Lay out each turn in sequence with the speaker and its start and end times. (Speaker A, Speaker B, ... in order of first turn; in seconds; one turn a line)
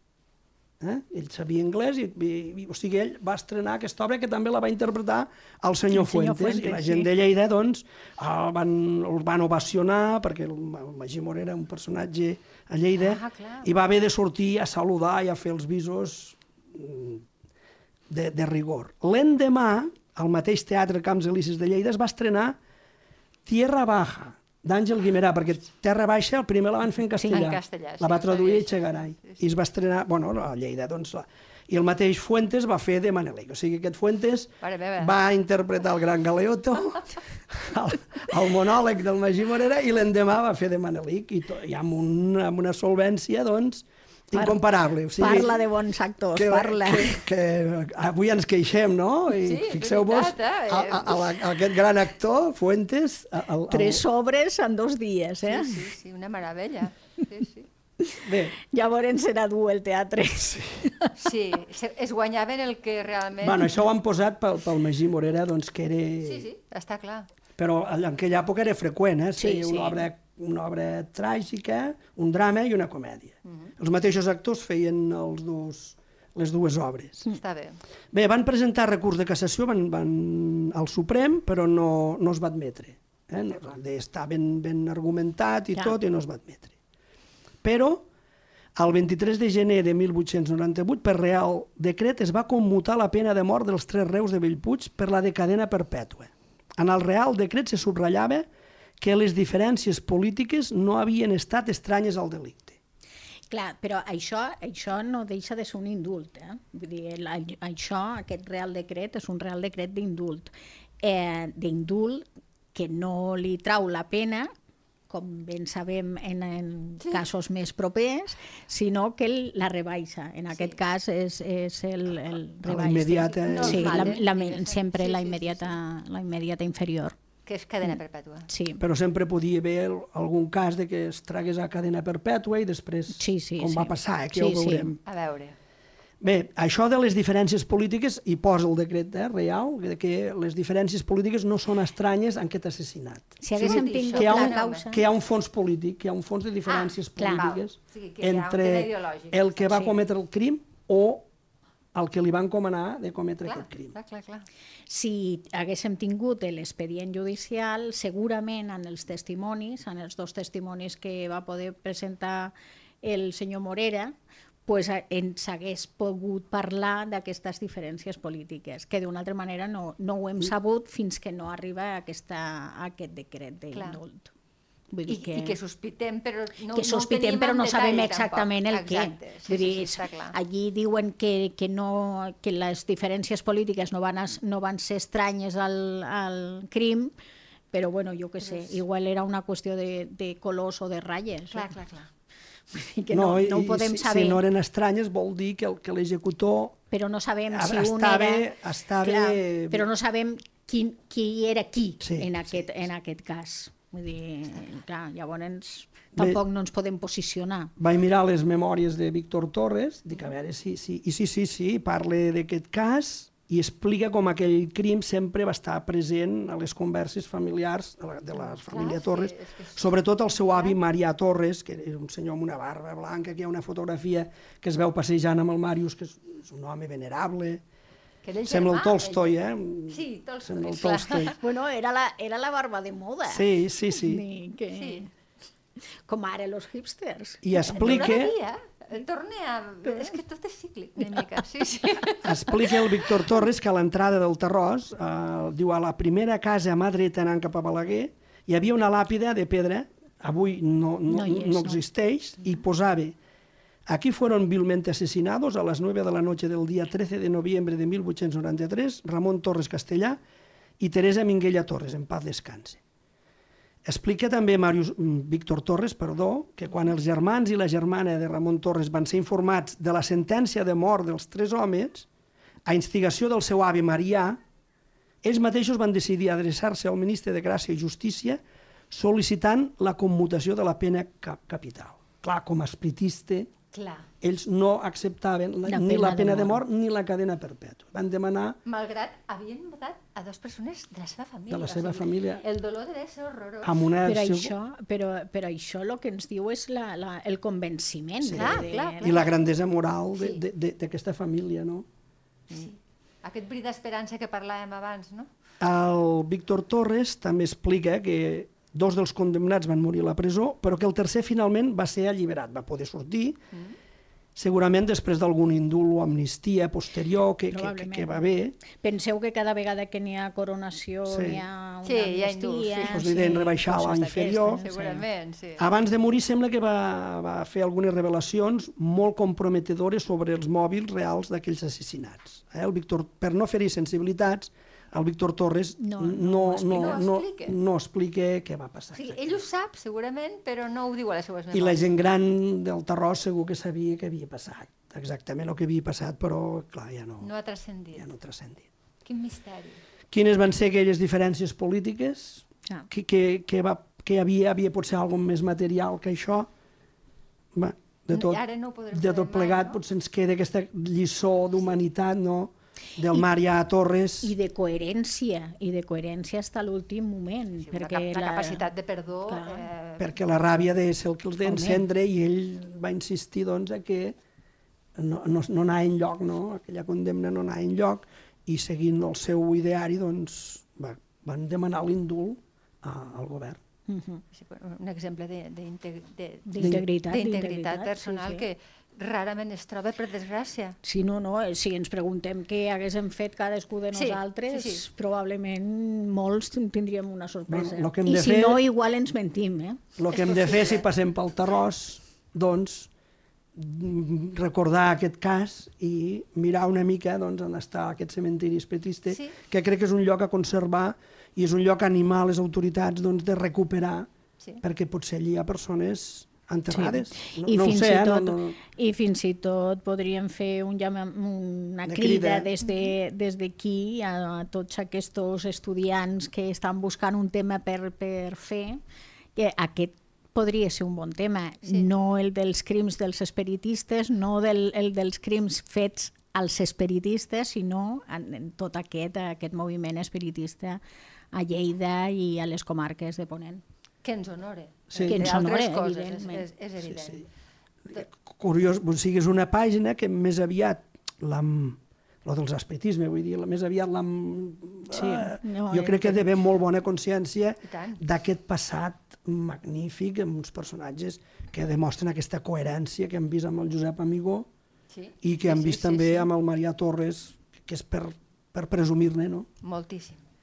Speaker A: 0.8-17.2
Speaker B: 5.9-7.1
Speaker C: 12.9-13.7
Speaker A: 18.1-22.6
Speaker A: 23.4-45.6
Speaker B: 27.2-27.5
Speaker C: 27.3-29.4
Speaker C: 34.6-35.1
Speaker B: 45.2-47.2
Speaker A: 46.3-54.0
Speaker C: 49.4-51.4
Speaker B: 53.7-55.8
Speaker C: 55.4-57.7
Speaker B: 58.0-61.1
Speaker A: 58.2-58.5
Speaker C: 61.2-63.7
Speaker A: 63.4-66.5
Speaker C: 66.2-67.3
Speaker A: 67.6-77.3
Speaker B: 69.4-70.1
Speaker C: 73.5-73.7
Speaker C: 77.3-77.8
Speaker A: 78.1-86.7
Speaker A: 87.6-88.1
Speaker A: 88.8-98.5
Speaker A: 99.0-102.8
Speaker B: 103.5-114.5
Speaker B: 115.1-127.2
Speaker C: 120.5-120.8
Speaker A: 122.6-124.2
Speaker C: 123.2-125.8
Speaker C: 127.5-128.5
Speaker B: 128.5-128.8
Speaker A: 128.8-135.0
Speaker B: 133.1-134.9
Speaker C: 135.1-135.6
Speaker A: 136.2-151.3
Speaker B: 143.4-145.0
Speaker C: 143.6-144.9
Speaker C: 146.7-149.8
Speaker B: 147.2-147.4
Speaker B: 149.7-150.0
Speaker A: 151.9-153.9
Speaker C: 153.4-154.5
Speaker B: 154.9-164.1
Speaker B: 164.7-174.3
Speaker C: 173.7-174.0
Speaker B: 174.9-175.6
Speaker C: 175.1-180.3
Speaker B: 176.7-187.1
Speaker B: 187.7-191.8
Speaker C: 188.4-188.8
Speaker C: 191.5-192.1
Speaker B: 192.7-194.4
Speaker A: 193.1-196.8
Speaker B: 196.9-198.5
Speaker A: 197.5-199.9
Speaker B: 199.0-207.7
Speaker A: 202.0-202.8
Speaker A: 207.8-227.6
Speaker C: 218.3-220.8
Speaker C: 228.2-229.3
Speaker A: 228.4-231.3
Speaker C: 229.9-231.4
Speaker B: 231.4-235.1
Speaker A: 233.3-234.2
Speaker C: 234.7-235.1
Speaker B: 236.1-238.2
Speaker A: 237.4-238.3
Speaker C: 237.6-243.1
Speaker B: 241.0-241.4
Speaker A: 242.2-253.2
Speaker B: 251.1-251.8
Speaker A: 253.9-260.2
Speaker A: 260.8-262.8
Speaker A: 263.8-272.1
Speaker A: 272.6-274.4
Speaker A: 275.2-283.5
Speaker C: 283.7-284.1
Speaker A: 284.2-288.6
Speaker B: 285.6-286.6
Speaker C: 288.6-293.8
Speaker A: 291.5-292.4
Speaker A: 293.6-294.5
Speaker B: 294.0-299.1
Speaker A: 298.2-301.9
Speaker C: 298.3-299.3
Speaker C: 302.5-305.3
Speaker A: 305.6-313.4
Speaker A: 314.4-318.6
Speaker B: 317.5-318.2
Speaker B: 318.8-325.0
Speaker A: 321.1-321.4
Speaker C: 321.8-323.1
Speaker A: 322.9-324.6
Speaker C: 324.1-325.6
Speaker A: 325.6-339.4
Speaker B: 335.8-337.0
Speaker C: 336.7-337.6
Speaker C: 338.9-341.8
Speaker A: 341.5-347.3
Speaker C: 347.2-348.1
Speaker A: 347.9-348.7
Speaker C: 349.0-349.8
Speaker A: 350.1-356.5
Speaker A: 357.5-364.3
Speaker C: 358.1-359.8
Speaker B: 364.2-368.6
Speaker C: 367.6-370.2
Speaker B: 369.3-369.7
Speaker A: 370.0-374.2
Speaker B: 371.4-371.8
Speaker A: 374.9-383.6
Speaker B: 383.9-384.2
Speaker C: 384.3-390.8
Speaker B: 386.5-388.4
Speaker A: 386.6-386.9
Speaker B: 390.8-399.8
Speaker C: 393.9-394.8
Speaker A: 397.5-398.6
Speaker A: 400.0-402.9
Speaker C: 400.1-400.8
Speaker A: 403.5-414.1
Speaker C: 409.1-409.4
Speaker A: 414.6-418.6
Speaker B: 416.7-428.8
Speaker A: 421.8-422.5
Speaker C: 422.6-422.9
Speaker B: 429.4-443.6
Speaker C: 431.6-431.9
Speaker C: 444.0-447.3
Speaker A: 444.9-445.3
Speaker B: 445.0-446.5
Speaker A: 446.9-447.2
Speaker A: 447.9-464.5
Speaker B: 454.9-456.3
Speaker C: 457.7-458.0
Speaker C: 464.9-466.3
Speaker A: 465.2-469.5
Speaker C: 469.6-470.2